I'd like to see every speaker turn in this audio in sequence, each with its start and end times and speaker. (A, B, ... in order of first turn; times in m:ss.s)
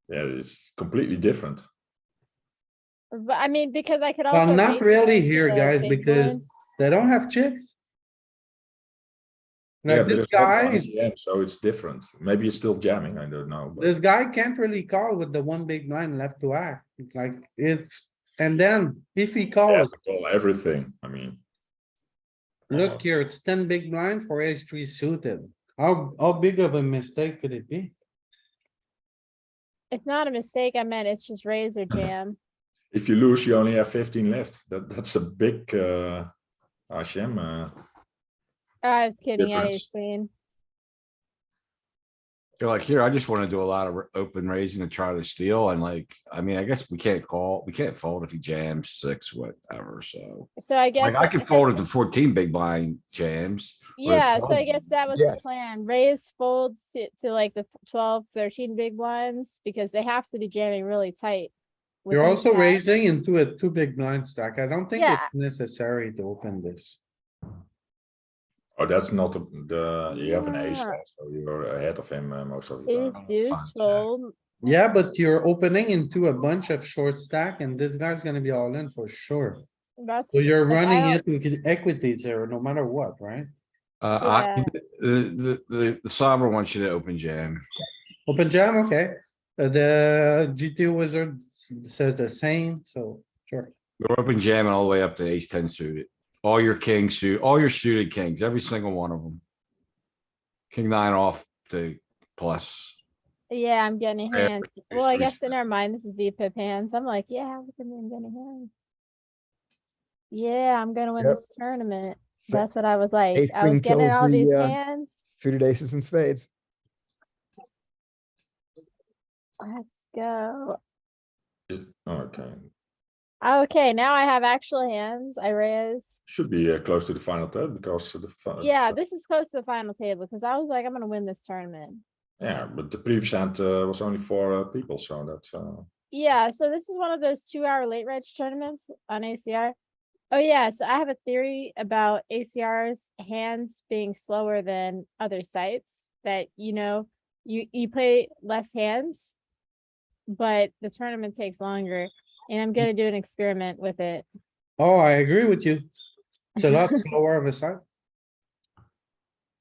0:00.1-0:01.6 A
0:03.1-0:06.5 B
0:04.3-0:07.8 C
0:09.8-0:10.9 C
0:09.9-0:14.0 A
0:13.8-0:19.9 C
0:19.7-0:21.4 A
0:22.7-0:23.0 A
0:22.7-0:27.9 C
0:29.9-0:32.4 B
0:32.9-0:36.3 A
0:36.9-0:37.8 A
0:38.8-0:40.3 B
0:39.4-0:39.9 A
0:42.6-0:54.9 D
0:50.6-0:51.8 B
0:54.0-1:01.5 B
0:55.1-0:55.4 E
1:02.0-1:02.8 B
1:02.1-1:07.0 C
1:04.9-1:05.3 B
1:08.8-1:13.3 A
1:10.1-1:11.0 B
1:12.9-1:14.3 B
1:13.5-1:14.0 D
1:14.6-1:19.6 C
1:20.0-1:21.2 B
1:20.3-1:23.5 C
1:24.0-1:27.6 D
1:24.2-1:24.7 B
1:28.3-1:33.7 C
1:34.0-1:39.4 D
1:40.7-1:43.0 D
1:43.5-1:48.7 B
1:44.3-1:45.4 D
1:50.3-1:55.1 B
1:53.3-1:54.8 E
1:55.4-1:56.5 E
1:59.6-2:00.8 B
2:01.7-2:02.7 A
2:03.4-2:06.1 B
2:06.3-2:09.0 A
2:08.6-2:12.0 B
2:12.4-2:15.9 A
2:16.1-2:19.8 B
2:20.3-2:29.4 B
2:30.3-2:34.3 B
2:34.8-2:35.9 C
2:36.5-2:37.8 C